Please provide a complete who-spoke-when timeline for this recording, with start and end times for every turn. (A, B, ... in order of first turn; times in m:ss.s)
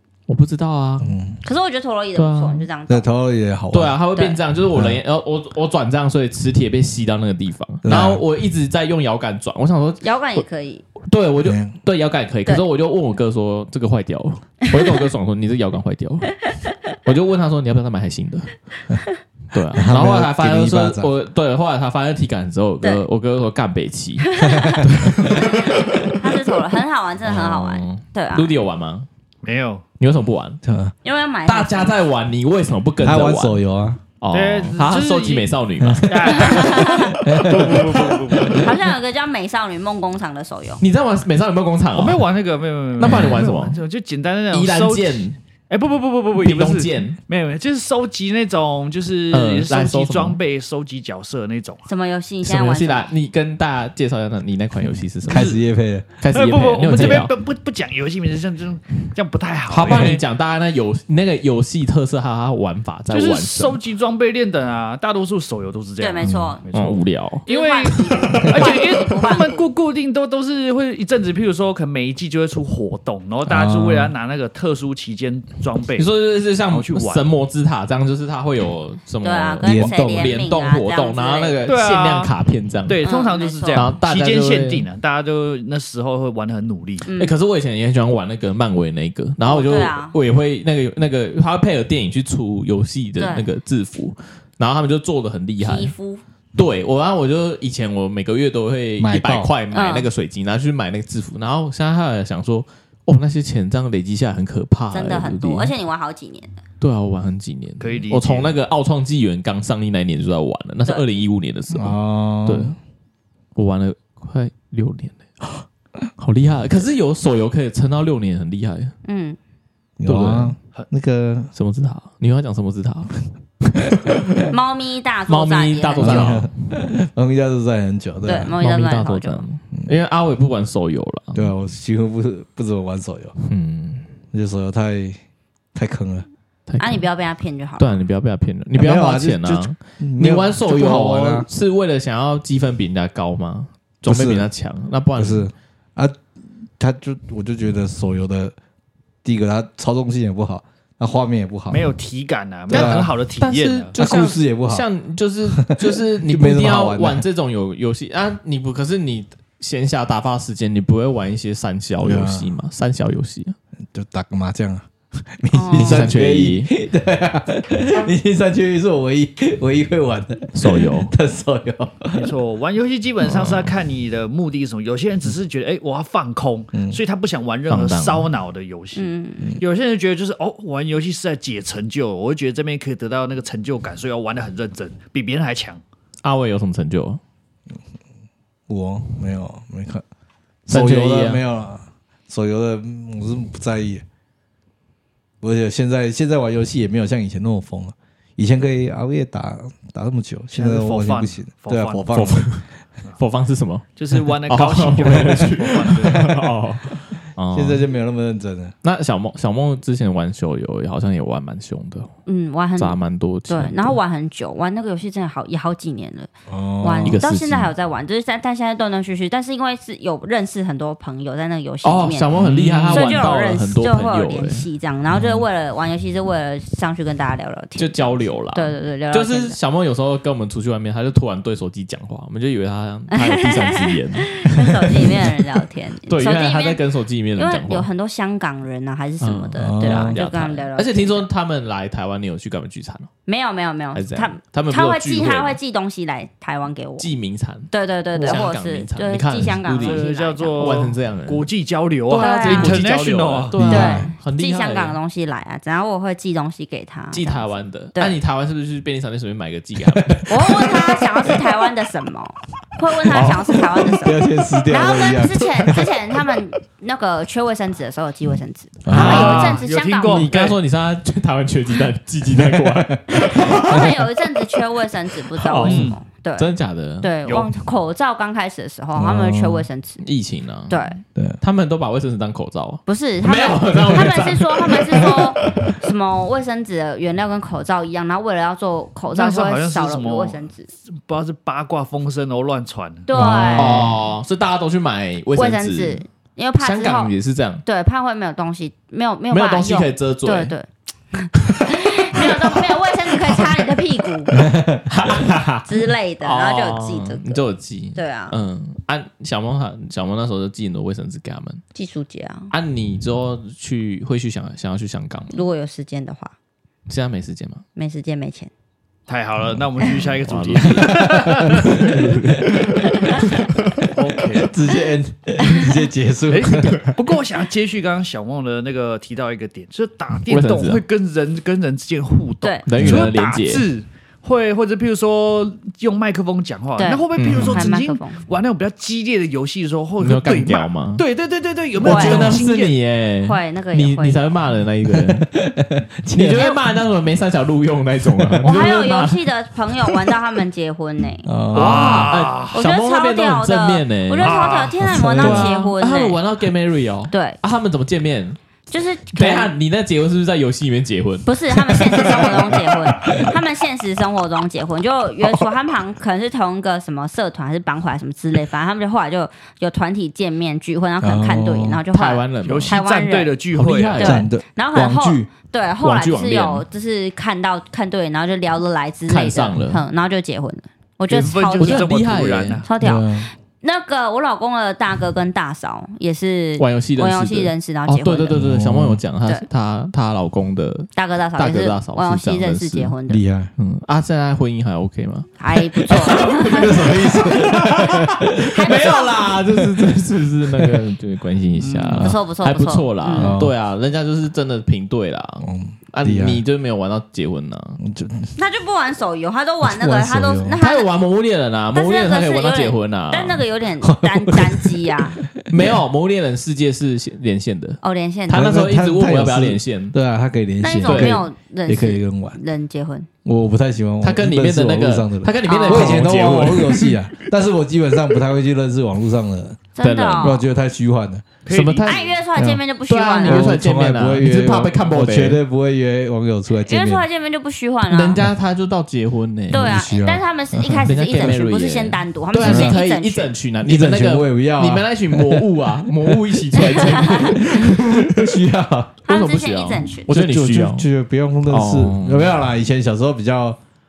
0:00.3-0:01.1 A
0:01.0-0:01.4 B
0:01.4-0:03.1 C
0:02.2-0:02.7 A
0:02.9-0:04.0 B
0:03.7-0:10.5 A
0:04.7-0:05.0 B
0:07.8-0:08.2 B
0:10.0-0:10.8 C
0:11.0-0:16.4 A
0:11.4-0:11.8 B
0:17.0-0:18.6 A
0:19.5-0:26.5 A
0:19.8-0:21.1 B
0:24.2-0:28.5 C
0:24.6-0:25.6 B
0:27.2-0:29.1 A
0:29.4-0:29.8 D
0:30.0-0:30.6 A
0:30.6-0:30.9 B
0:31.0-0:32.0 C
0:31.5-0:33.6 A
0:33.0-0:34.0 B
0:34.2-0:36.8 A
0:34.3-0:35.5 D
0:35.8-0:36.5 B
0:36.0-0:38.7 D
0:36.4-0:37.2 C
0:37.2-0:38.7 B
0:38.5-0:40.8 C
0:40.8-0:42.2 A
0:42.0-0:51.9 D
0:43.0-0:43.8 A
0:43.1-0:43.4 B
0:44.5-0:45.4 A
0:46.4-0:47.2 A
0:49.3-0:50.4 A
0:51.9-0:53.1 C
0:52.4-0:55.6 A
0:55.2-0:56.1 B
0:56.2-0:57.3 A
0:56.3-1:00.2 D
0:59.7-1:03.8 A
0:59.8-1:00.2 B
1:03.1-1:16.1 D
1:06.0-1:06.6 C
1:06.2-1:06.5 B
1:06.7-1:08.9 A
1:07.5-1:09.7 C
1:13.4-1:14.1 B
1:16.0-1:23.0 A
1:16.7-1:17.2 D
1:19.2-1:21.6 C
1:19.6-1:20.4 B
1:21.7-1:22.3 D
1:22.9-1:27.1 D
1:23.0-1:23.9 C
1:23.7-1:24.9 A
1:27.0-1:27.3 C
1:27.2-1:35.9 A
1:29.4-1:30.2 C
1:33.2-1:33.5 C
1:35.6-1:36.2 C
1:36.6-1:45.7 A
1:39.0-1:39.5 B
1:39.7-1:40.1 C
1:44.9-1:46.6 C
1:46.8-1:52.8 A
1:47.8-1:48.6 D
1:51.7-1:52.8 B
1:53.6-1:55.7 A
1:56.2-1:58.9 A
1:59.0-1:59.4 C
2:00.0-2:01.5 B
2:00.1-2:00.6 A
2:01.6-2:04.2 A
2:04.5-2:06.4 C
2:05.3-2:06.5 A
2:06.0-2:08.5 B
2:08.2-2:09.4 C
2:08.6-2:11.5 A
2:11.4-2:13.4 B
2:13.4-2:14.0 A
2:14.3-2:15.2 B
2:15.8-2:16.3 B
2:16.7-2:17.0 A
2:16.8-2:17.9 C
2:17.8-2:25.5 A
2:18.8-2:21.5 B
2:24.1-2:24.5 B
2:25.2-2:26.2 B
2:26.8-2:28.6 B
2:29.2-2:31.9 B
2:31.7-2:34.0 D
2:32.7-2:43.6 A
2:32.7-2:33.1 B
2:34.0-2:34.9 B
2:35.5-2:37.2 B
2:42.0-2:42.5 B
2:43.9-2:52.3 B
2:45.5-2:46.1 C
2:45.7-2:46.7 A
2:50.6-2:51.1 A
2:52.2-2:59.1 D
2:53.2-2:53.7 A
2:56.7-2:57.0 B
2:57.7-2:58.3 A
2:59.0-2:59.6 C
2:59.6-3:05.8 D
3:06.2-3:07.2 A
3:08.7-3:10.0 B
3:10.7-3:11.4 A
3:10.7-3:14.0 B
3:15.4-3:22.5 B
3:20.5-3:22.4 D
3:22.2-3:22.6 A
3:23.2-3:27.8 A
3:24.0-3:26.2 D
3:26.1-3:26.5 B
3:27.5-3:28.7 B
3:28.8-3:32.1 A
3:32.3-3:33.0 C
3:32.8-3:34.0 A
3:33.5-3:36.3 C
3:36.5-3:37.2 B
3:36.8-3:42.3 C
3:37.0-3:37.7 A
3:41.8-3:44.6 A
3:42.3-3:43.4 B
3:42.9-3:49.6 C
3:45.1-3:45.4 B
3:47.8-3:55.3 A
3:53.1-3:56.8 C
3:56.1-3:57.9 A
3:57.4-4:01.3 C
3:59.2-4:03.1 A
3:59.6-4:00.2 B
4:03.3-4:07.1 C
4:03.9-4:05.6 A
4:07.0-4:10.0 A
4:07.7-4:10.8 C
4:08.2-4:08.5 D
4:09.8-4:13.6 D
4:10.6-4:11.5 A
4:12.1-4:15.0 A
4:12.1-4:12.8 C
4:13.6-4:14.1 B
4:13.7-4:17.4 C
4:17.1-4:21.4 A
4:19.9-4:20.3 B
4:20.3-4:30.3 C
4:23.1-4:23.9 A
4:23.1-4:25.9 B
4:28.8-4:29.5 B
4:28.9-4:30.6 D
4:28.9-4:34.0 A
4:32.3-4:33.8 B
4:33.1-4:40.0 C
4:35.4-4:37.1 A
4:35.6-4:36.0 D
4:39.0-4:39.7 B
4:40.0-4:40.8 A
4:40.7-4:41.0 C
4:41.4-4:45.8 A
4:42.9-4:50.7 C
4:49.2-4:53.1 D
4:53.1-4:53.9 C
4:53.2-4:54.0 B
4:53.2-4:56.0 A
4:55.4-4:57.1 C
4:56.6-4:57.6 A
4:57.6-5:04.3 C
4:59.3-5:00.5 A
5:02.1-5:03.5 A
5:04.3-5:04.8 B
5:04.9-5:11.6 A
5:05.7-5:07.4 C
5:08.0-5:08.4 C
5:11.8-5:12.5 C
5:12.5-5:15.4 A
5:15.3-5:16.3 C
5:16.9-5:17.6 A
5:17.8-5:18.5 C
5:19.1-5:22.0 D
5:19.9-5:23.7 A
5:20.6-5:23.1 B
5:22.9-5:23.3 C
5:23.8-5:24.5 D
5:24.3-5:26.8 B
5:26.3-5:42.8 D
5:30.3-5:30.8 A
5:32.7-5:33.7 A
5:32.8-5:33.1 B
5:36.8-5:38.2 C
5:37.2-5:37.7 A
5:40.0-5:41.0 A
5:41.8-5:45.3 A
5:41.8-5:42.3 C
5:43.2-5:44.2 C
5:44.8-5:46.6 B
5:46.1-5:49.2 A
5:48.2-5:48.5 B
5:48.4-5:51.3 C
5:51.2-5:52.1 B
5:51.5-5:52.6 D
5:51.5-5:54.4 A
5:52.5-5:56.2 C
5:54.2-5:54.8 D
5:54.8-5:55.6 B
5:55.2-5:58.4 A
5:57.1-5:57.4 C
5:58.7-5:59.5 C
5:59.1-6:02.4 A
6:01.3-6:13.4 C
6:02.0-6:03.4 B
6:11.0-6:11.8 B
6:11.9-6:12.8 A
6:12.4-6:14.1 D
6:13.5-6:14.3 A
6:14.0-6:21.9 C
6:14.0-6:15.3 B
6:15.8-6:16.6 A
6:19.1-6:19.8 A
6:21.1-6:22.7 D
6:21.6-6:22.7 A
6:22.7-6:28.4 C
6:22.8-6:23.3 B
6:26.6-6:33.0 A
6:28.4-6:29.0 B
6:31.0-6:33.2 C
6:33.1-6:33.5 B
6:33.6-6:47.8 A
6:35.4-6:36.8 C
6:35.9-6:39.9 B
6:38.5-6:39.2 C
6:40.5-6:40.8 B
6:41.6-6:42.0 D
6:41.9-6:42.2 B
6:42.0-6:43.3 C
6:43.2-6:43.5 B
6:45.4-6:46.4 B
6:47.8-6:48.3 B
6:48.4-6:50.9 C
6:49.6-6:50.6 B
6:50.6-6:53.4 A
6:51.7-6:55.2 C
6:53.8-6:55.8 B
6:55.5-7:00.0 A
6:57.8-6:58.5 C
6:58.3-7:02.4 B
7:00.6-7:03.1 C
7:00.8-7:01.2 A
7:03.2-7:09.6 B
7:04.0-7:07.0 A
7:05.4-7:06.0 C
7:09.8-7:10.4 C
7:09.8-7:10.4 A
7:10.2-7:11.3 B
7:11.4-7:12.2 D
7:11.5-7:12.0 A
7:11.8-7:13.6 C
7:12.4-7:12.6 B
7:12.9-7:15.4 A
7:13.2-7:17.0 B
7:16.6-7:18.2 C
7:17.9-7:19.8 A
7:19.5-7:23.3 C
7:19.5-7:20.8 B
7:20.7-7:28.4 A
7:22.4-7:22.8 B
7:23.6-7:29.0 B
7:26.6-7:27.4 C
7:29.1-7:30.1 C
7:29.1-7:30.9 A
7:30.1-7:33.6 B
7:31.5-7:32.4 A